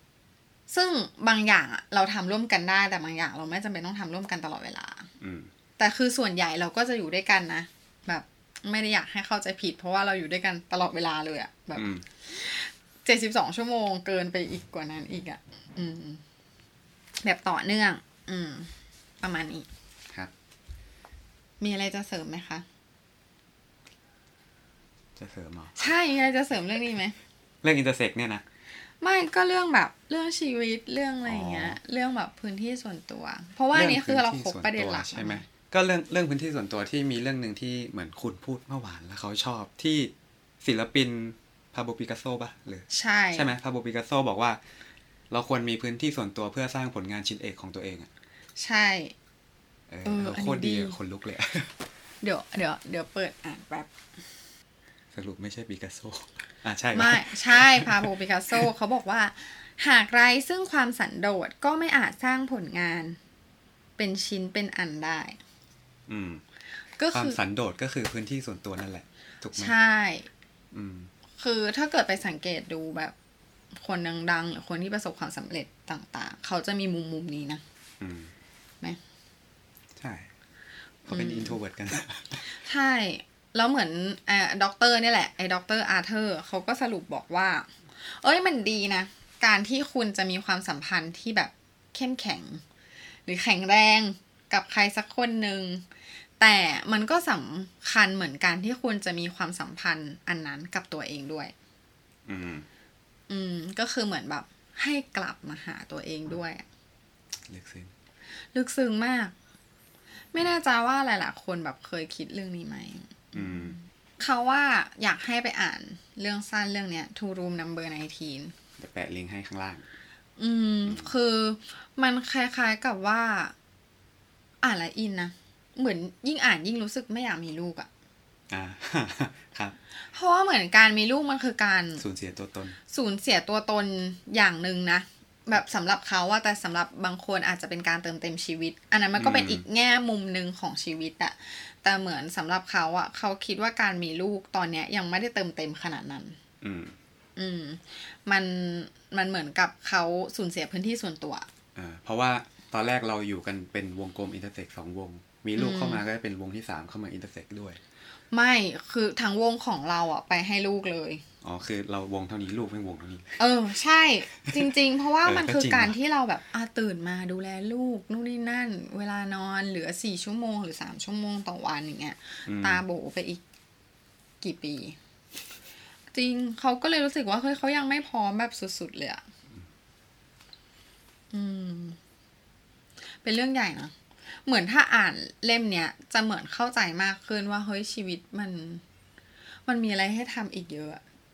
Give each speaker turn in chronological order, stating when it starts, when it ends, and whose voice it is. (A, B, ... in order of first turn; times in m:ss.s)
0:00.7-0:05.1 A
0:05.2-0:05.5 B
0:05.8-0:16.2 A
0:11.8-0:12.0 B
0:17.2-0:19.7 A
0:21.6-0:22.6 A
0:25.2-0:25.8 B
0:25.8-0:27.2 A
0:27.6-0:28.4 B
0:29.0-0:35.5 A
0:31.2-0:31.8 B
0:33.7-0:44.6 B
0:42.9-0:43.5 A
0:45.3-0:48.1 B
0:48.6-0:49.1 A
0:49.9-0:51.7 B
0:50.0-0:51.0 A
0:52.2-0:53.9 A
0:55.1-0:58.7 B
0:57.0-1:03.2 A
1:04.0-1:05.4 A
1:06.1-1:06.4 B
1:07.0-1:07.4 A
1:07.1-1:09.8 B
1:09.6-1:10.3 A
1:10.7-1:11.1 B
1:11.4-1:13.1 A
1:13.8-1:17.6 A
1:18.0-1:18.3 B
1:20.0-1:20.3 B
1:21.1-1:22.5 B
1:21.1-1:21.6 A
1:22.5-1:32.6 A
1:33.3-1:35.8 A
1:36.4-1:41.5 A
1:42.3-1:42.7 B
1:43.3-1:46.6 A
1:47.5-1:47.9 B
1:48.5-1:49.3 A
1:50.3-1:58.5 A
1:53.4-1:53.8 B
1:58.8-1:59.8 B
2:00.4-2:03.5 A
2:00.9-2:01.1 B
2:04.6-2:07.9 A
2:08.5-2:09.8 B
2:10.0-2:12.0 A
2:12.0-2:12.8 B
2:12.9-2:26.4 A
2:19.2-2:19.6 B
2:26.6-2:27.0 B
2:27.4-2:31.4 A
2:31.8-2:37.8 B
2:35.6-2:36.0 A
2:38.3-2:41.2 A
2:41.4-2:43.4 B
2:43.4-2:53.4 A
2:45.2-2:46.0 B
2:52.5-2:52.8 B
2:54.4-2:55.0 A
2:56.1-2:59.2 A
3:01.3-3:02.0 A
3:03.2-3:03.9 A
3:04.4-3:08.8 A
3:09.7-3:11.0 A